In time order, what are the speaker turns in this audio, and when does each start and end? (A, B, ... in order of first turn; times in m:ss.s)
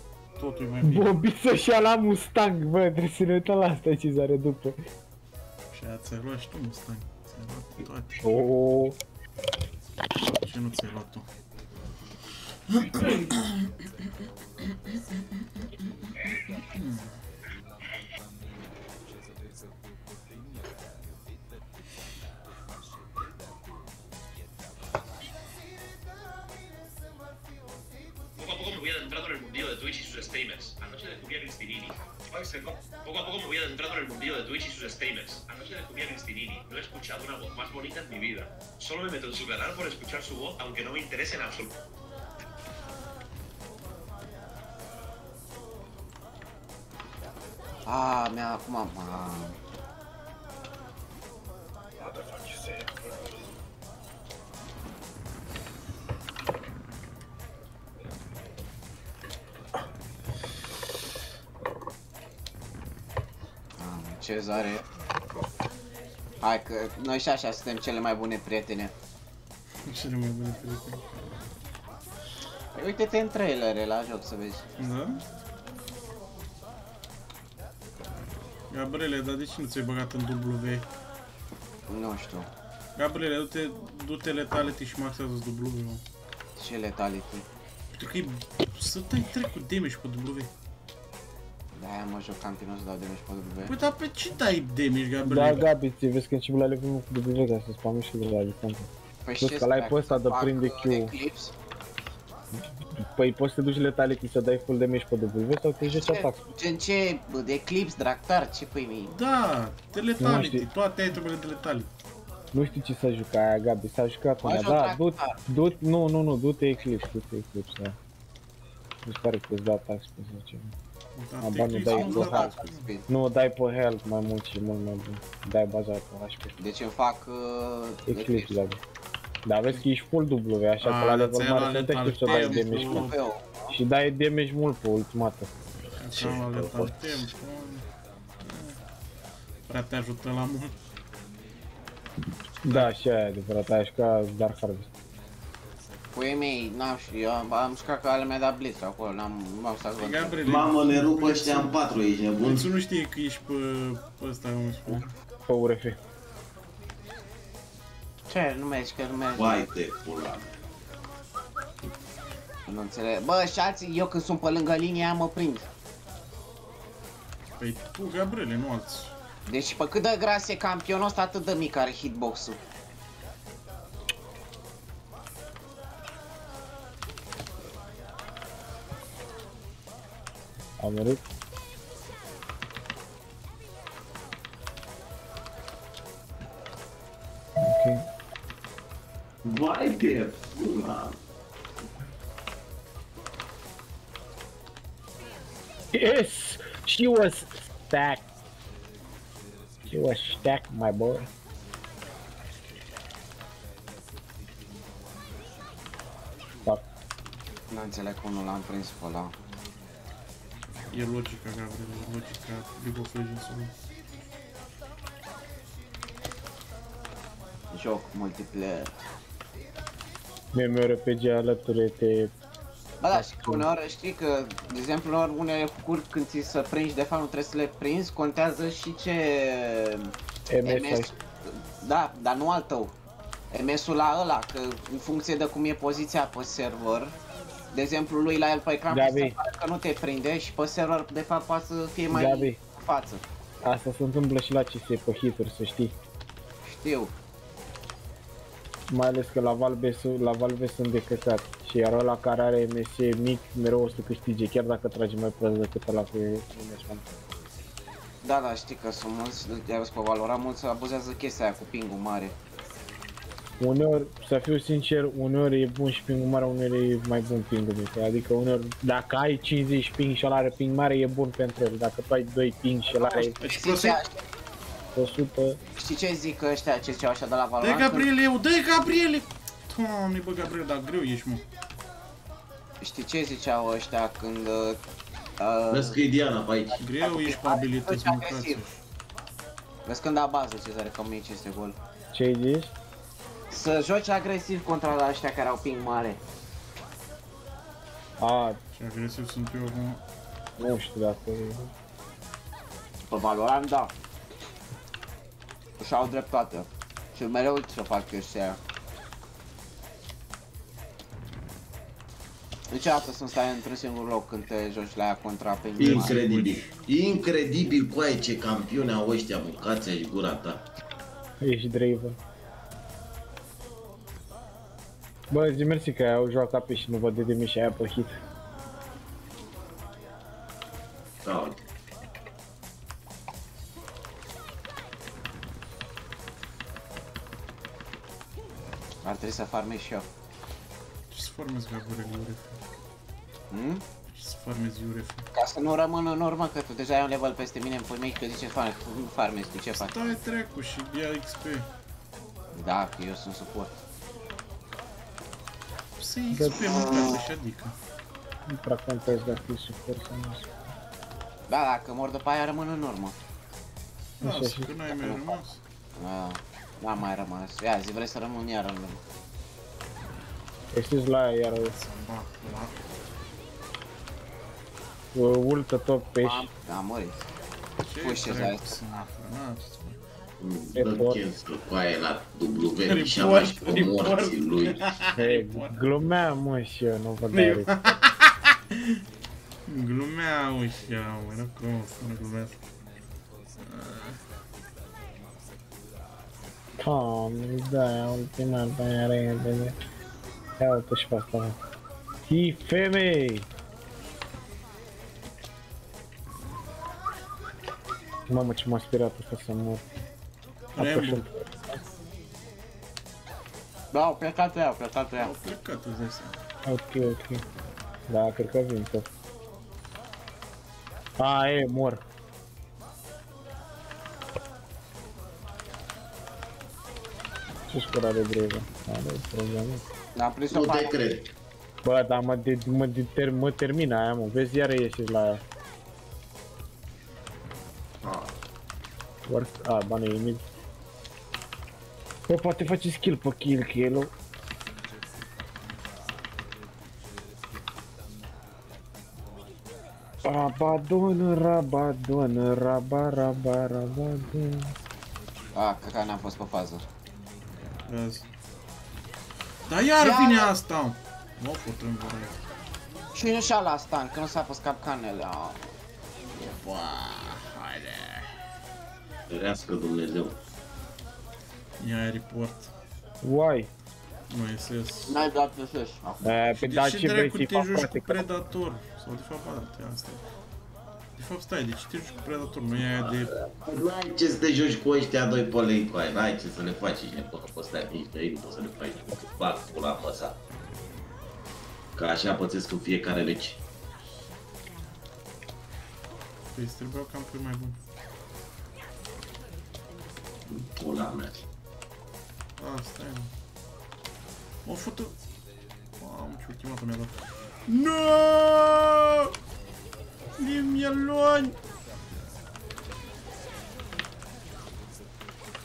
0:00.4-0:01.1 A
0:00.8-0:04.8 B
0:05.7-0:08.2 A
0:08.2-0:09.0 B
0:10.3-0:11.2 A
0:12.7-0:17.2 A
0:28.4-0:41.7 C
0:47.8-0:49.6 D
1:03.8-1:04.8 D
1:06.4-1:08.9 D
1:09.8-1:11.3 A
1:12.7-1:14.7 D
1:14.8-1:15.2 A
1:18.7-1:20.8 A
1:21.9-1:22.5 D
1:23.0-1:26.0 A
1:26.6-1:27.4 D
1:27.9-1:30.5 A
1:31.8-1:33.7 D
1:33.6-1:35.7 A
1:35.2-1:38.9 B
1:39.2-1:41.5 D
1:39.4-1:41.2 B
1:43.0-1:46.4 B
1:45.8-1:49.1 D
1:49.1-1:51.9 A
1:50.2-1:50.7 B
1:52.5-1:58.0 B
1:54.4-1:55.4 D
1:59.0-2:00.7 B
2:01.1-2:02.9 A
2:01.4-2:06.5 B
2:01.8-2:03.1 D
2:06.6-2:08.5 D
2:08.1-2:08.8 B
2:09.4-2:13.1 B
2:10.8-2:13.2 A
2:12.2-2:13.8 D
2:13.7-2:15.5 B
2:16.0-2:17.8 A
2:16.2-2:16.9 B
2:16.4-2:16.7 E
2:18.4-2:18.8 A
2:19.7-2:20.7 A
2:22.6-2:24.9 B
2:22.6-2:22.9 A
2:26.1-2:30.5 D
2:30.0-2:31.8 A
2:30.4-2:32.7 E
2:32.4-2:35.1 A
2:34.9-2:36.0 B
2:38.3-2:39.7 D
2:39.3-2:40.5 E
2:42.7-2:45.7 D
2:47.6-2:49.1 A
2:49.4-2:52.6 D
3:00.8-3:01.2 B
3:07.6-3:08.0 B
3:09.4-3:11.2 E
3:15.9-3:18.2 B
3:19.9-3:21.3 B
3:27.7-3:29.3 D
3:30.9-3:33.7 A
3:37.7-3:38.9 D
3:40.5-3:42.3 B
3:43.0-3:52.9 D
3:43.1-3:43.7 B
3:50.5-3:51.1 B
3:53.5-3:57.1 D
3:57.7-4:03.2 D
3:58.9-3:59.4 B
4:02.1-4:02.6 B
4:03.6-4:05.9 B
4:06.6-4:07.1 D
4:08.9-4:17.0 B
4:18.2-4:22.3 D
4:23.6-4:33.4 B
4:32.9-4:34.2 D
4:33.3-4:34.0 A
4:34.9-4:35.6 B
4:35.8-4:38.1 D
4:37.6-4:41.4 A
4:42.8-4:44.8 D
4:45.4-4:46.0 D
4:45.7-4:46.8 E
4:46.7-4:48.6 D
4:46.8-4:48.8 A
4:49.8-4:51.8 D
4:52.1-4:52.7 B
4:53.5-4:56.2 D
4:58.2-4:58.6 B
4:58.7-5:00.0 A
5:00.6-5:01.7 B
5:03.1-5:03.9 D
5:05.8-5:08.6 D
5:12.7-5:16.2 D
5:15.8-5:20.6 E
5:15.8-5:16.7 A
5:21.4-5:22.2 B
5:25.3-5:28.2 B
5:31.2-5:31.6 E
5:39.0-5:40.0 D
5:41.1-5:42.6 A
5:43.5-5:43.8 D
5:44.1-5:45.3 A
5:45.3-5:50.0 D
5:49.7-5:51.7 A
5:52.5-5:53.8 D
5:56.0-5:57.8 A
5:56.3-5:57.0 B
5:58.5-6:00.5 B
6:01.5-6:03.2 D
6:04.2-6:04.7 B
6:04.2-6:05.6 A
6:04.8-6:05.4 D
6:06.0-6:09.0 D
6:10.7-6:11.8 B
6:11.6-6:12.7 A
6:15.1-6:16.5 B
6:16.2-6:17.2 D
6:17.8-6:20.0 A
6:18.0-6:18.8 D
6:20.4-6:24.8 E
6:20.7-6:21.2 B
6:22.8-6:25.8 A
6:25.1-6:27.7 B
6:27.3-6:29.0 A
6:29.7-6:32.6 A
6:33.6-6:34.2 A
6:36.8-6:39.7 B
6:40.6-6:41.6 B
6:42.3-6:43.5 B
6:48.3-6:49.8 B
6:50.7-6:51.2 A
6:50.8-6:51.7 B
6:53.9-6:55.3 D
6:55.2-6:56.4 A
6:56.6-6:57.4 B
6:58.1-6:59.0 B
7:01.2-7:02.0 B
7:07.7-7:09.8 B
7:10.1-7:11.0 D
7:10.5-7:11.3 E
7:11.8-7:15.4 B
7:18.0-7:18.3 E
7:19.3-7:20.4 B
7:22.3-7:24.1 B
7:30.2-7:34.7 B
7:35.5-7:36.8 D
7:37.8-7:38.2 A
7:39.7-7:42.4 A
7:40.0-7:40.5 D
7:43.1-7:45.6 D
7:46.4-7:48.3 A
7:49.3-7:50.4 E
7:51.8-7:52.7 A
7:53.2-7:53.7 B
7:54.3-7:55.2 A
7:55.1-7:56.3 D
7:56.2-7:58.2 B
7:56.5-8:00.2 A
8:01.2-8:03.4 A
8:03.0-8:10.4 E
8:12.0-8:13.6 E
8:16.5-8:17.8 A
8:20.5-8:21.4 E
8:22.6-8:23.3 A
8:24.6-8:25.1 A
8:26.0-8:27.2 A
8:27.7-8:29.3 A
8:30.4-8:31.5 A